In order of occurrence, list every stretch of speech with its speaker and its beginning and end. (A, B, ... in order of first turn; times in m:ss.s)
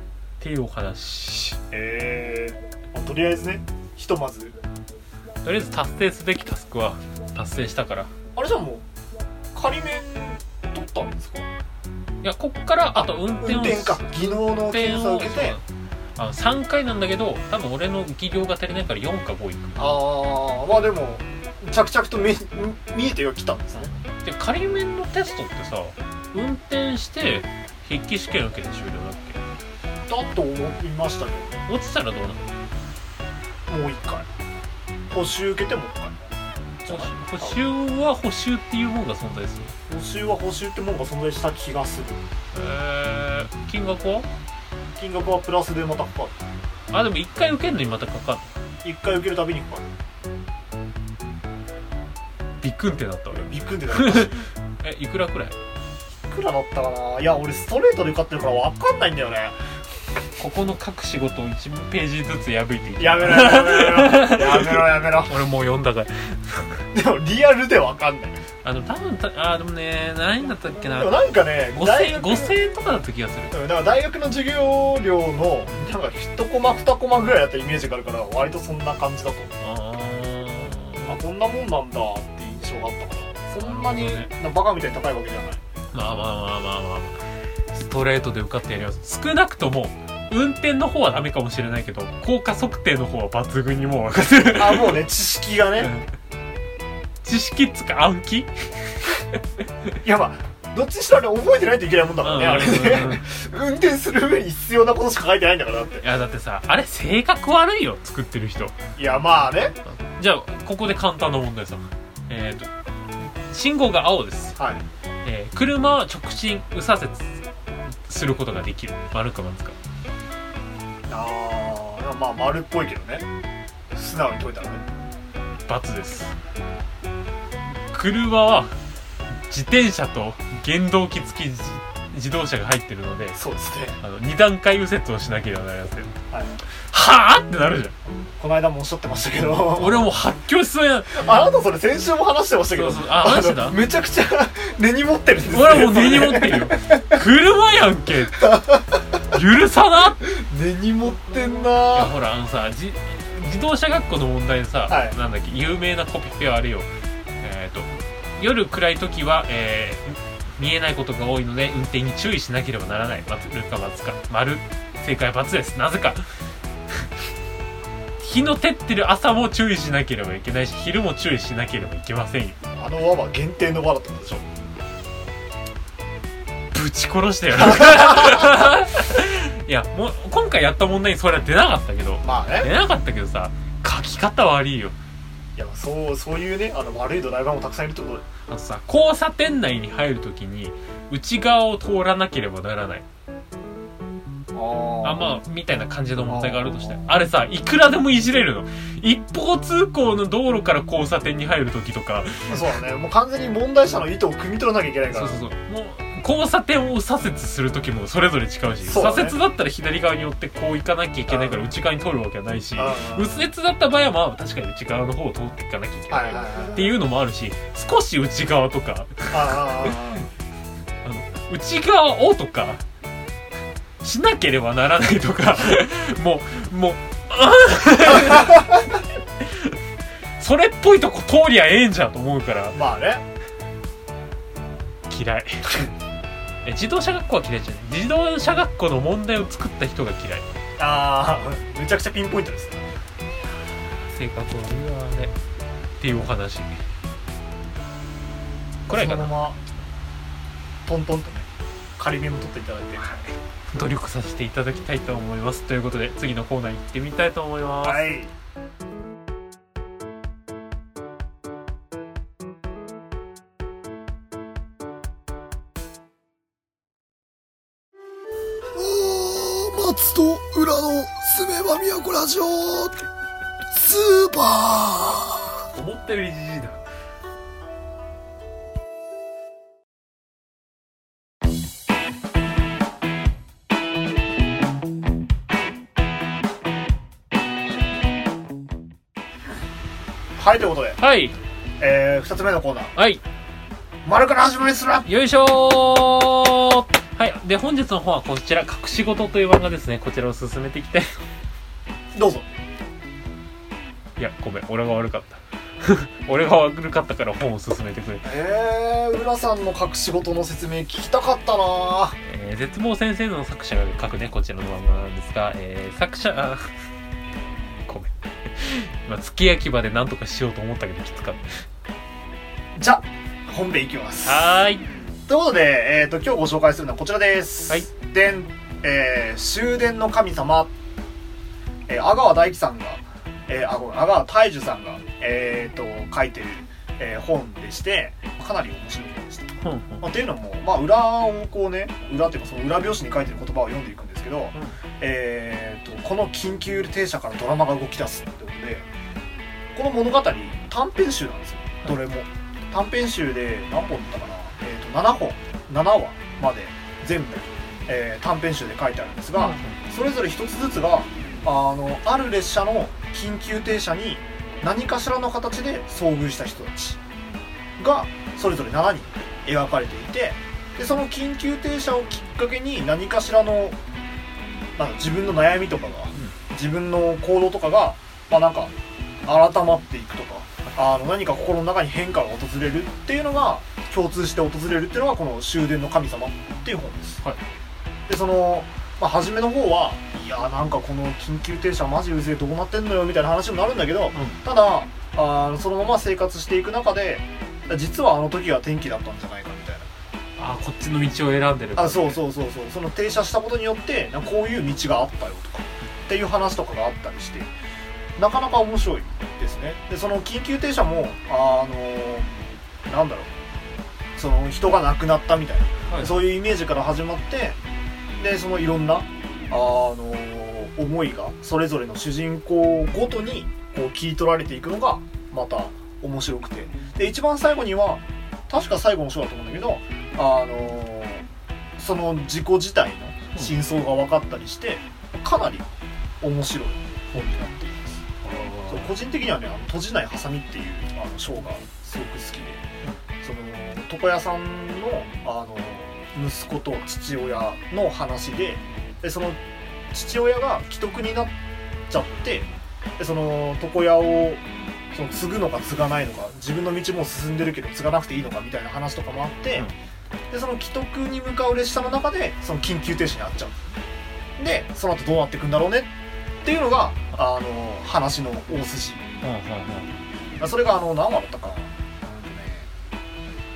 0:00.4-0:01.6 A
0:01.7-0:04.6 B
0:05.4-0:08.1 A
0:08.3-0:08.8 B
0:09.5-0:11.5 B
0:12.2-0:15.6 A
0:13.4-0:15.6 B
0:16.2-0:19.8 A
0:19.8-0:23.9 B
0:23.8-0:29.4 A
0:30.1-0:31.6 B
0:31.7-0:32.4 A
0:33.7-0:34.3 B
0:35.1-0:36.2 B
0:36.8-0:37.6 B
0:36.9-0:39.7 A
0:39.9-0:42.2 B
0:42.5-0:44.3 A
0:45.0-0:46.4 B
0:46.9-0:48.5 A
0:48.8-0:49.9 B
0:52.6-0:55.6 A
0:53.3-0:54.4 B
0:56.3-0:59.6 B
1:00.4-1:06.8 A
1:03.0-1:05.4 B
1:06.9-1:08.4 B
1:08.6-1:11.2 A
1:10.9-1:12.5 B
1:11.7-1:13.5 A
1:13.5-1:19.6 B
1:19.6-1:21.2 A
1:21.1-1:25.6 B
1:23.6-1:24.3 A
1:25.9-1:27.2 A
1:27.7-1:35.1 A
1:34.5-1:35.9 B
1:35.8-1:36.1 A
1:37.2-1:39.4 A
1:40.0-1:46.0 B
1:42.2-1:43.2 A
1:46.0-1:48.7 A
1:49.0-1:49.8 B
1:49.8-1:52.7 A
1:53.4-1:54.6 A
1:54.6-1:54.8 B
1:55.2-1:57.4 A
1:57.9-1:59.8 A
2:01.1-2:03.2 B
2:03.9-2:04.8 B
2:05.7-2:06.3 A
2:07.9-2:08.7 A
2:09.3-2:13.4 A
2:13.4-2:14.0 B
2:14.0-2:16.1 A
2:16.3-2:16.6 B
2:16.9-2:18.0 A
2:18.4-2:20.1 B
2:19.7-2:21.2 A
2:21.1-2:27.2 B
2:22.7-2:23.8 A
2:25.5-2:28.6 A
2:28.4-2:29.0 B
2:29.2-2:30.2 A
2:30.2-2:32.1 B
2:31.9-2:36.9 A
2:34.9-2:35.2 B
2:37.4-2:46.2 A
2:48.2-2:52.6 A
2:52.8-2:54.4 B
2:56.7-3:05.0 A
2:57.6-2:58.6 B
3:02.2-3:02.7 B
3:05.6-3:08.2 B
3:08.5-3:13.0 A
3:14.5-3:15.3 B
3:15.0-3:22.6 A
3:16.3-3:17.0 B
3:22.5-3:25.4 B
3:25.1-3:39.9 A
3:28.8-3:29.4 B
3:31.3-3:31.6 B
3:32.7-3:33.3 B
3:36.1-3:36.9 B
3:39.3-3:40.3 B
3:41.0-3:42.8 A
3:44.0-3:49.8 A
3:48.3-3:48.6 B
3:50.4-3:52.8 A
3:52.7-3:53.2 B
3:55.1-3:55.9 A
3:56.6-4:00.5 A
4:00.8-4:02.8 B
4:04.0-4:05.3 A
4:06.0-4:06.8 A
4:08.9-4:09.4 A
4:08.9-4:09.6 B
4:10.8-4:13.0 B
4:13.0-4:18.1 A
4:17.8-4:18.3 B
4:28.7-4:32.9 C
4:33.7-4:35.5 C
4:35.7-4:36.8 A
4:50.4-4:51.0 B
4:51.0-4:51.3 A
4:51.8-4:52.9 B
4:53.0-4:53.2 A
4:54.0-4:55.1 B
4:55.0-5:01.1 A
5:02.1-5:02.6 B
5:04.2-5:08.3 A
5:08.2-5:12.2 B
5:12.2-5:16.7 A
5:17.8-5:21.6 A
5:22.8-5:24.5 B
5:24.2-5:24.8 A
5:25.3-5:30.7 B
5:31.9-5:48.9 B
5:39.6-5:40.0 A
5:49.7-6:07.0 B
5:59.4-5:59.8 A
6:07.8-6:13.8 B
6:14.8-6:18.7 B
6:19.2-6:27.2 B
6:28.1-6:39.9 B
6:40.4-6:42.2 A
6:41.8-6:47.5 B
6:48.2-6:52.3 B
6:52.8-6:53.3 B
6:54.2-6:57.6 B
6:55.9-6:56.2 A
6:58.2-7:11.2 B
7:11.8-7:15.7 B
7:16.2-7:17.8 B
7:18.2-7:18.9 A
7:18.7-7:22.6 B
7:23.2-7:29.4 B
7:29.9-7:31.3 B
7:31.9-7:39.7 B
7:40.3-7:43.6 B
7:44.4-7:45.9 B
7:46.4-7:49.0 B
7:49.2-7:49.9 A
7:50.4-7:52.7 B